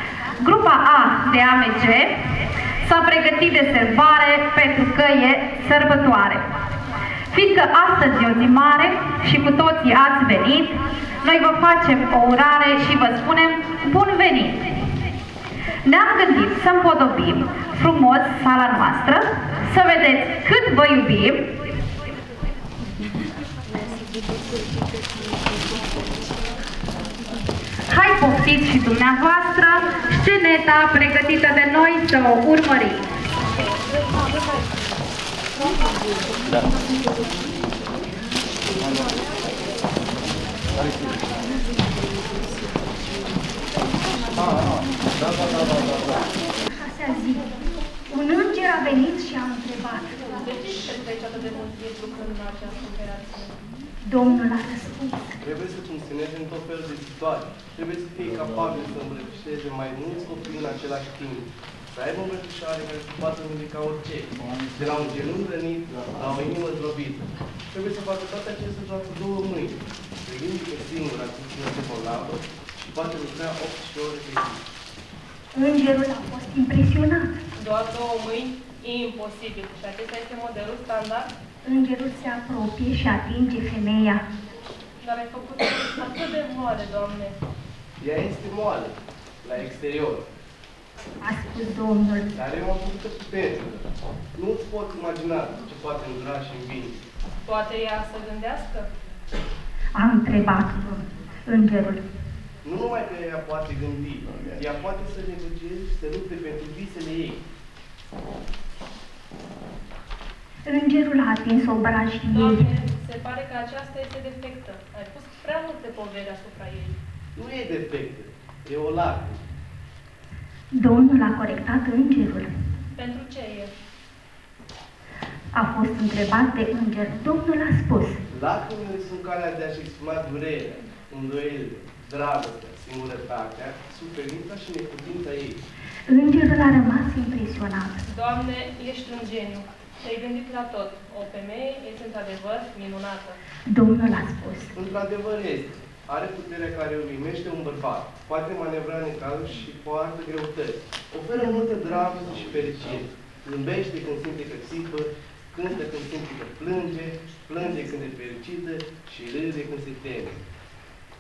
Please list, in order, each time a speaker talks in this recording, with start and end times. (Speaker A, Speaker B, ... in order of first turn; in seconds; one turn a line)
Speaker A: 0.4-2.1
Speaker A: 2.8-6.4
Speaker A: 7.3-14.8
Speaker A: 15.9-21.5
Speaker A: 27.9-33.0
Speaker B: 46.1-47.5
Speaker B: 48.1-50.2
Speaker C: 50.3-53.6
Speaker B: 54.1-55.4
Speaker D: 55.4-74.6
Speaker B: 75.5-77.3
Speaker C: 77.6-81.3
Speaker B: 81.7-84.2
Speaker C: 85.0-87.3
Speaker D: 88.0-90.2
Speaker B: 91.2-92.3
Speaker D: 92.4-97.0
Speaker C: 97.5-98.9
Speaker B: 100.0-102.0
Speaker D: 102.6-107.4
Speaker B: 110.7-112.7
Speaker C: 112.3-117.0
Speaker D: 117.4-119.4
Speaker B: 120.7-122.5
Speaker C: 123.0-123.7
Speaker B: 125.5-128.2
Speaker D: 128.3-135.6
Speaker B: 136.1-138.0
Speaker C: 138.1-143.4
Speaker B: 143.7-144.7
Speaker D: 144.8-160.4